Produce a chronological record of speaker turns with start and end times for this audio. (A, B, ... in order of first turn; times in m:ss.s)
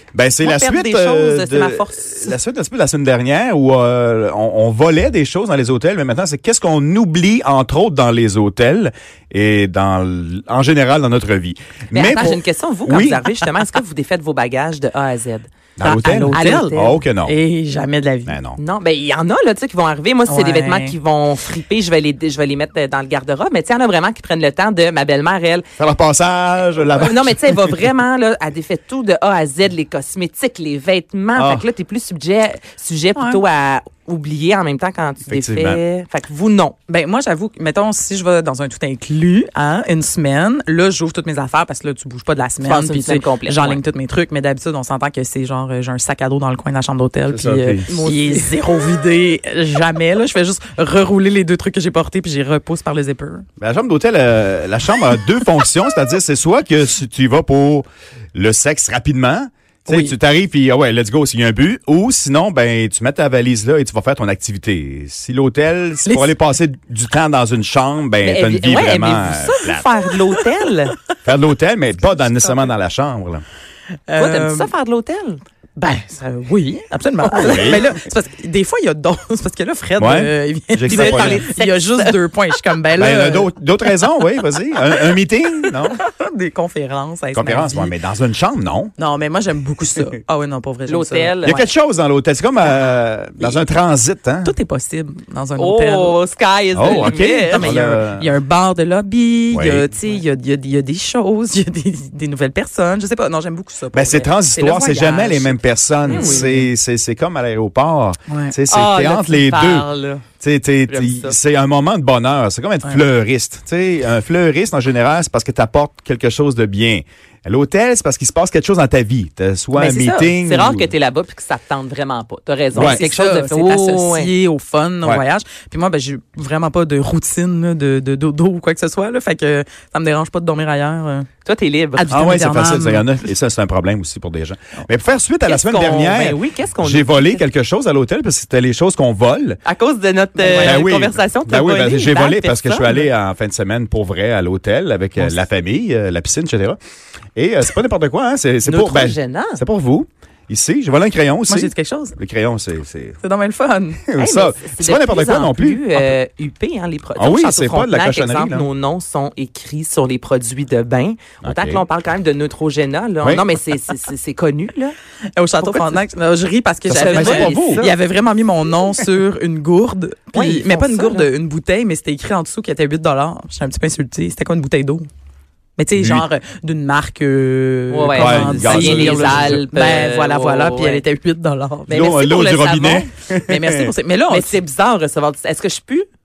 0:00.1-0:13.2 A
0:00.4-0:02.4 B
0:11.9-0:15.5 B
0:15.8-0:17.4 A
0:15.8-0:18.4 C
0:16.1-0:17.0 B
0:18.3-0:18.6 A
0:18.6-0:25.7 B
0:20.3-0:20.9 C
0:25.8-0:27.8 A
0:26.9-0:36.8 B
0:31.4-0:31.6 A
0:35.3-0:35.8 A
0:36.9-0:53.4 C
0:42.6-0:43.8 B
0:47.3-0:47.9 A
0:47.9-0:48.6 B
0:53.6-1:09.9 A
0:59.9-1:00.1 C
1:06.0-1:06.3 C
1:08.2-1:10.9 B
1:11.2-1:13.4 A
1:12.2-1:12.6 C
1:14.1-1:14.7 C
1:14.2-1:15.4 B
1:15.8-1:23.5 C
1:17.3-1:17.7 B
1:17.4-1:17.9 A
1:20.0-1:21.4 A
1:20.9-1:22.2 B
1:23.0-1:26.0 A
1:25.6-1:27.9 C
1:27.3-1:28.9 A
1:29.0-1:31.4 C
1:30.9-1:31.7 B
1:31.4-1:34.6 A
1:34.4-1:36.2 C
1:35.6-1:37.8 B
1:36.7-1:38.3 A
1:36.8-1:44.8 C
1:39.5-1:39.9 A
1:43.9-1:49.9 A
1:44.6-1:45.5 B
1:46.1-1:46.5 B
1:46.1-1:46.7 C
1:48.3-1:48.6 C
1:48.7-1:50.2 B
1:50.4-2:00.9 A
1:50.9-1:51.4 B
1:59.7-2:04.3 B
2:02.8-2:03.0 A
2:02.8-2:11.3 C
2:11.4-2:12.1 B
2:11.9-2:13.1 C
2:12.1-2:19.6 A
2:15.4-2:17.4 B
2:19.7-2:23.1 B
2:20.4-2:20.8 C
2:20.5-2:26.8 A
2:27.4-2:33.2 A
2:28.7-2:29.6 B
2:31.5-2:32.2 C
2:33.2-2:34.0 C
2:34.1-2:36.1 A
2:34.2-2:45.0 B
2:37.2-2:38.7 A
2:41.4-2:41.8 A
2:45.4-2:55.1 C
2:45.6-2:46.0 B
2:46.9-2:47.9 A
2:46.9-2:48.0 B
2:50.3-2:51.3 B
2:55.8-3:02.0 C
2:55.9-2:56.3 A
2:57.9-3:01.0 B
2:58.1-2:59.6 A
3:01.9-3:03.1 B
3:01.9-3:03.9 A
3:03.4-3:04.6 C
3:04.3-3:06.1 B